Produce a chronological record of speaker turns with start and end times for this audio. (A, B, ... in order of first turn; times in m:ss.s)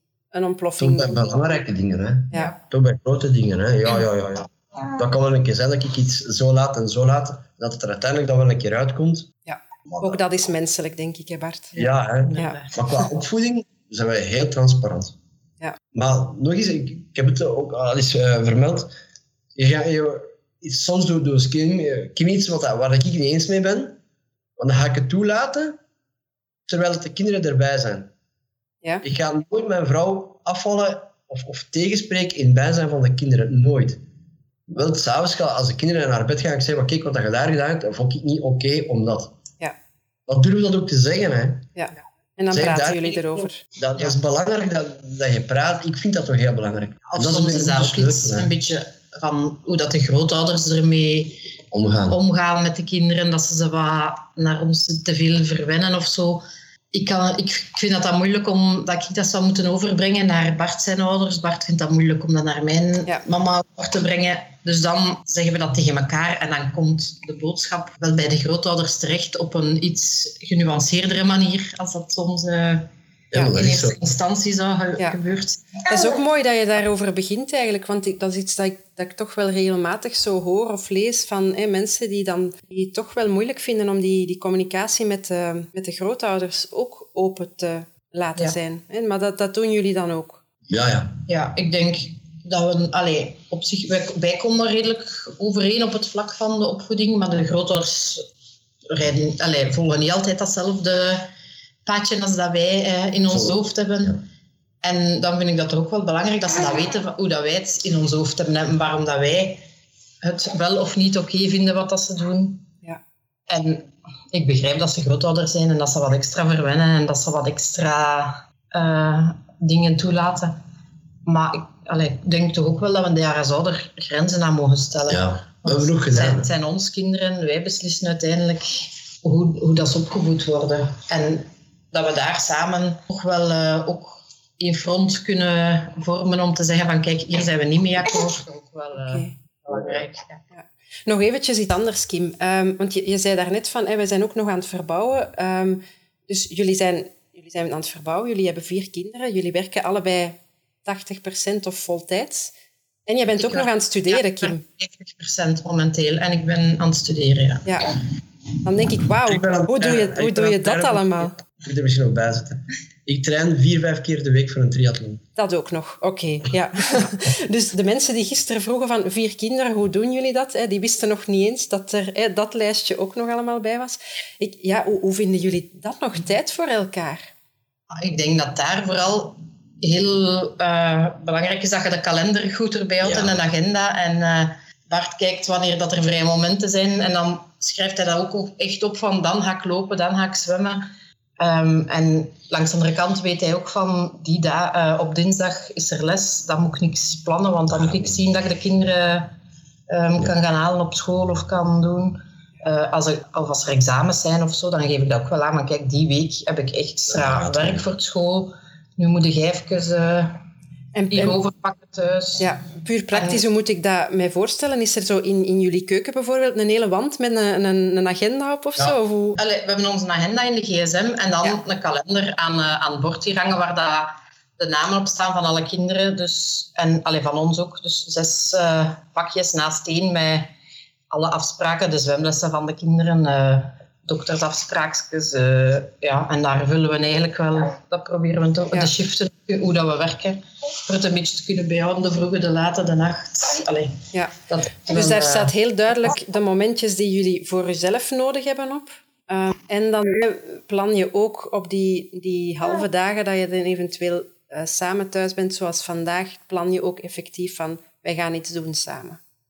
0:00.3-0:01.4 A
0:00.8-0:09.3 B
0:09.5-0:11.8 A
0:09.9-0:10.2 B
0:11.8-0:12.8 C
0:11.8-0:15.2 B
0:15.9-0:18.9 B
0:19.6-0:24.0 B
0:24.6-0:25.8 B
0:26.7-0:28.1 B
0:29.0-0:34.0 B
0:34.7-0:39.4 B
0:40.3-0:41.7 B
0:41.8-0:43.6 A
0:42.5-0:43.2 B
0:43.8-0:48.5 B
0:47.1-0:51.5 C
0:51.7-0:52.2 B
0:52.1-1:16.2 C
1:13.3-1:14.0 B
1:15.9-1:30.4 A
1:30.7-1:31.2 B
1:31.3-1:38.2 C
1:38.9-1:41.3 C
1:41.9-1:44.2 C
1:43.3-1:43.6 B
1:44.8-1:49.6 C
1:50.2-1:52.6 C
1:53.5-2:00.6 C
2:01.3-2:20.4 C
2:05.1-2:06.5 B
2:19.0-2:19.3 A
2:20.5-2:32.5 A
2:33.1-2:34.6 A
2:33.4-2:37.7 C
2:37.7-2:37.9 A
2:38.6-2:41.4 A
2:39.2-2:45.2 B
2:45.4-2:57.3 A
2:58.0-3:10.9 C
3:03.0-3:03.4 B
3:11.4-3:19.3 C
3:19.9-3:30.4 C
3:27.1-3:27.8 B
3:30.9-3:31.4 A
3:31.1-3:32.5 C
3:32.4-3:39.4 A
3:33.1-3:33.4 C
3:39.4-3:50.5 C
3:51.1-4:05.5 C
4:04.9-4:19.2 A